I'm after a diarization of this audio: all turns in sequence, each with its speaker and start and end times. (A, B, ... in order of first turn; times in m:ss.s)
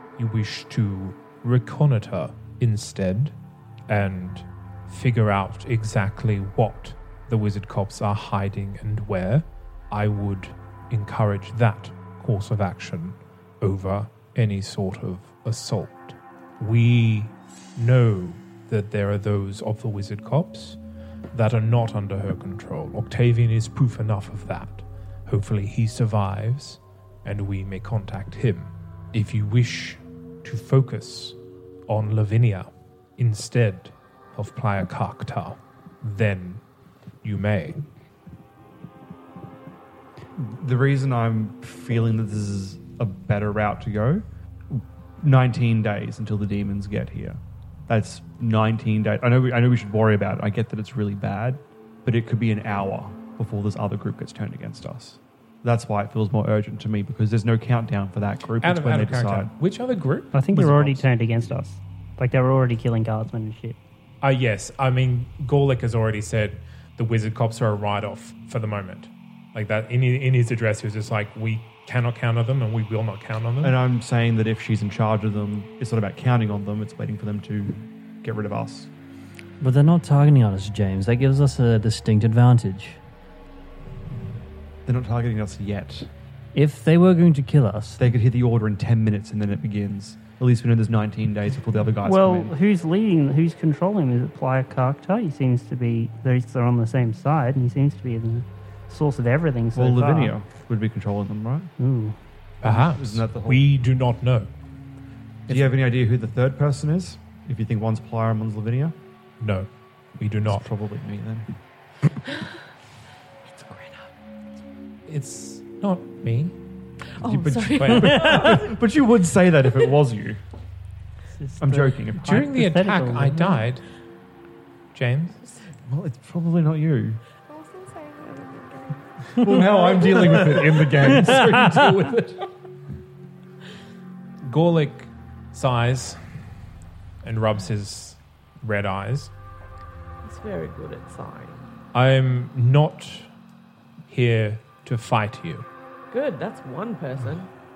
0:00.2-0:03.3 A
0:03.9-0:20.8 A
0:21.3-0:31.4 A
0:31.9-0:36.6 A
0:37.2-0:37.8 A
0:40.4-0:59.5 B
0:58.6-1:01.0 A
1:00.3-1:03.8 C
1:04.2-1:13.8 A
1:13.6-1:18.9 B
1:19.6-1:23.0 D
1:24.9-1:26.1 B
1:26.6-1:28.0 D
1:28.0-1:32.6 B
1:32.0-1:40.3 C
1:39.8-1:41.7 B
1:41.8-1:42.2 C
1:42.6-1:43.7 B
1:42.6-1:44.5 A
1:45.5-1:49.0 B
1:49.4-1:50.6 A
1:50.4-1:51.6 B
1:53.5-1:54.1 E
1:55.1-1:56.6 A
1:57.2-1:58.6 E
1:57.2-2:00.4 B
1:57.9-1:58.2 A
2:01.4-2:03.6 C
2:01.6-2:02.4 B
2:02.2-2:03.8 A
2:05.0-2:05.4 A
2:05.9-2:07.2 B
2:07.5-2:10.4 E
2:09.4-2:12.4 B
2:14.4-2:16.2 A
2:17.2-2:19.3 A
2:20.2-2:21.6 E
2:21.9-2:23.3 A
2:24.1-2:25.7 A
2:26.1-2:27.5 E